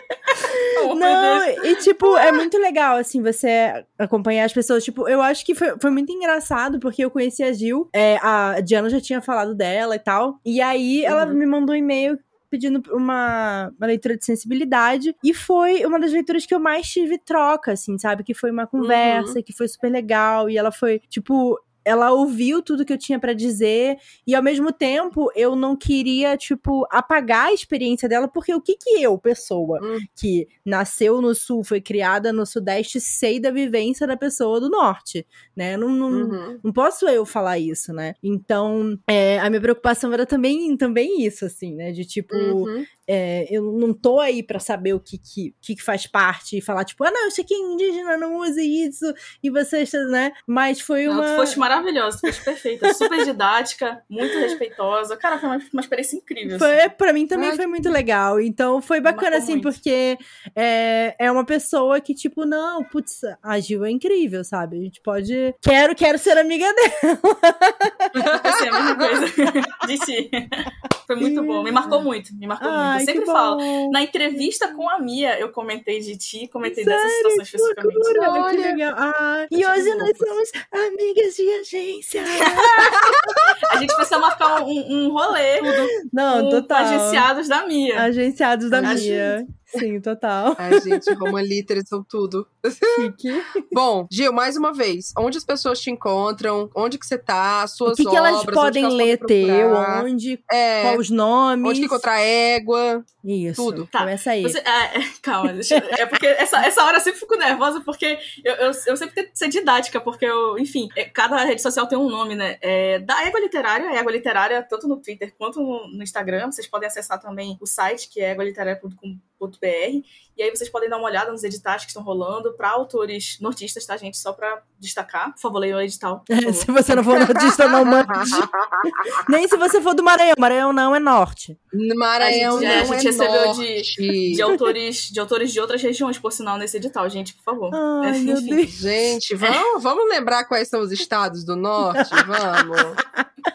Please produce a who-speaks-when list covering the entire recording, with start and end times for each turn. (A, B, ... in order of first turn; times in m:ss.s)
0:00.3-0:51.6 A
0:00.7-0:02.3 B
0:11.1-0:11.4 C
0:18.8-0:19.4 C
0:29.8-0:30.0 C
0:36.1-0:36.6 C
0:42.3-0:42.9 C
0:51.1-0:56.8 B
0:56.5-1:08.1 A
0:57.3-0:57.7 C
0:59.0-0:59.8 B
1:08.1-1:09.2 C
1:08.2-1:18.4 B
1:11.2-1:12.0 A
1:12.6-1:14.4 A
1:16.6-1:23.0 A
1:18.1-1:18.8 C
1:19.5-1:20.2 C
1:22.3-1:23.0 B
1:22.8-1:23.9 C
1:23.6-1:28.1 B
1:25.6-1:27.3 A
1:27.9-1:31.1 A
1:28.7-1:29.2 C
1:28.8-1:29.4 B
1:30.6-1:41.0 C
1:32.9-1:33.7 A
1:37.9-1:42.0 A
1:41.6-1:43.9 C
1:43.2-1:44.6 A
1:43.9-2:06.7 B
2:06.3-2:11.6 A
2:07.1-2:09.2 C
2:11.7-2:14.5 C
2:12.2-2:18.7 B
2:12.6-2:12.9 A
2:17.7-2:18.8 A
2:18.8-2:23.0 C
2:22.0-2:23.2 A